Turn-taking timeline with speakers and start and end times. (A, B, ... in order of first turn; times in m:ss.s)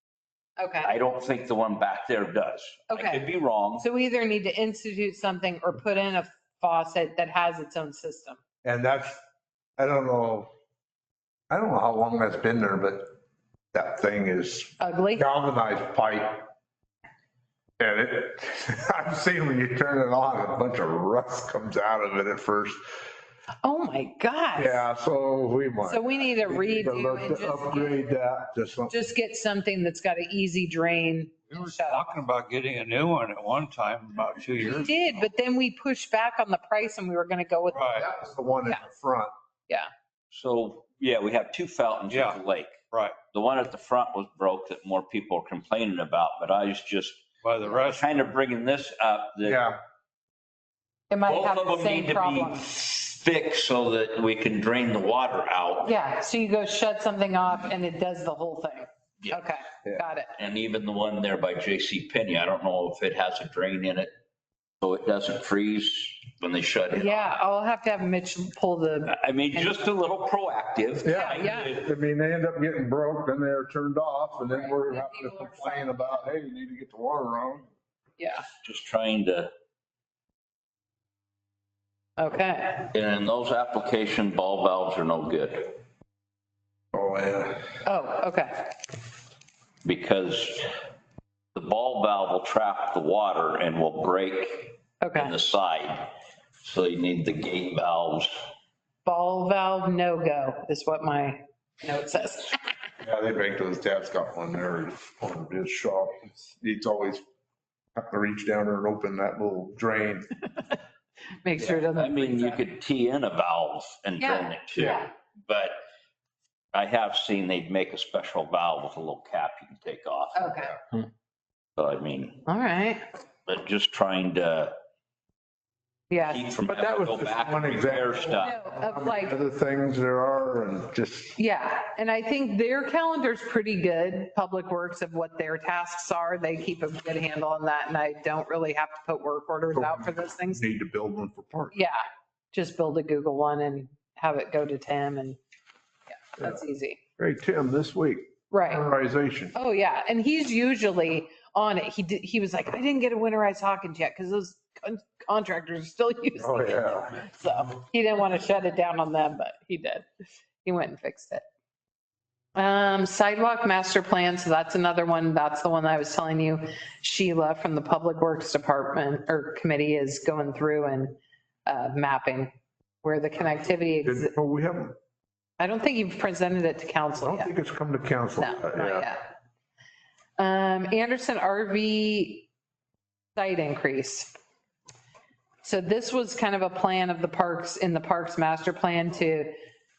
0:00.6-0:00.9 A
0:00.8-0:03.9 B
0:02.9-0:08.4 A
0:08.6-0:09.2 C
0:09.8-0:10.5 C
0:11.5-0:13.2 C
0:13.7-0:16.5 C
0:14.8-0:15.2 A
0:17.8-0:22.8 C
0:23.6-0:24.8 A
0:24.6-0:29.0 C
0:25.8-0:28.0 A
0:28.9-0:32.2 A
0:31.5-0:35.0 D
0:34.6-0:37.9 A
0:37.7-0:38.1 D
0:37.8-0:39.3 C
0:40.3-0:42.8 B
0:42.1-0:42.4 D
0:42.9-0:43.2 D
0:43.3-0:49.6 B
0:47.4-0:48.3 D
0:49.4-0:49.8 C
0:51.1-0:52.7 A
0:51.2-0:56.0 B
0:55.8-1:00.3 A
1:00.4-1:04.1 B
1:04.8-1:07.4 B
1:06.9-1:09.8 A
1:09.1-1:11.9 B
1:11.0-1:17.7 C
1:11.0-1:11.8 A
1:14.5-1:16.2 A
1:18.6-1:19.5 B
1:22.2-1:22.9 A
1:22.9-1:25.8 B
1:26.9-1:27.8 C
1:27.8-1:28.7 A
1:29.8-1:30.7 B
1:31.5-1:36.1 B
1:35.0-1:35.3 A
1:36.6-1:38.4 B
1:39.0-1:42.6 A
1:43.0-1:47.2 C
1:48.0-1:50.3 C
1:51.4-1:52.6 A
1:51.6-1:55.8 B
1:54.2-1:55.1 A
1:56.7-2:00.6 B
2:00.3-2:00.8 A
2:01.8-2:02.4 B
2:02.5-2:03.0 A
2:03.5-2:04.7 B
2:06.1-2:06.5 A
2:06.2-2:08.6 B
2:06.6-2:11.4 C
2:08.4-2:09.4 A
2:11.4-2:20.7 A
2:19.7-2:21.8 C
2:21.7-2:25.4 A
2:26.2-2:27.0 A
2:27.2-2:29.6 C
2:28.5-2:28.9 A
2:29.5-2:40.0 A
2:36.4-2:37.1 C
2:40.6-2:41.4 A
2:42.6-2:52.5 A
2:53.0-2:54.3 A
2:54.0-2:55.0 C
2:55.6-2:57.5 A
2:57.2-2:59.1 C
2:58.4-2:59.2 A
3:00.4-3:02.5 A
3:03.4-3:04.3 A
3:05.6-3:09.5 A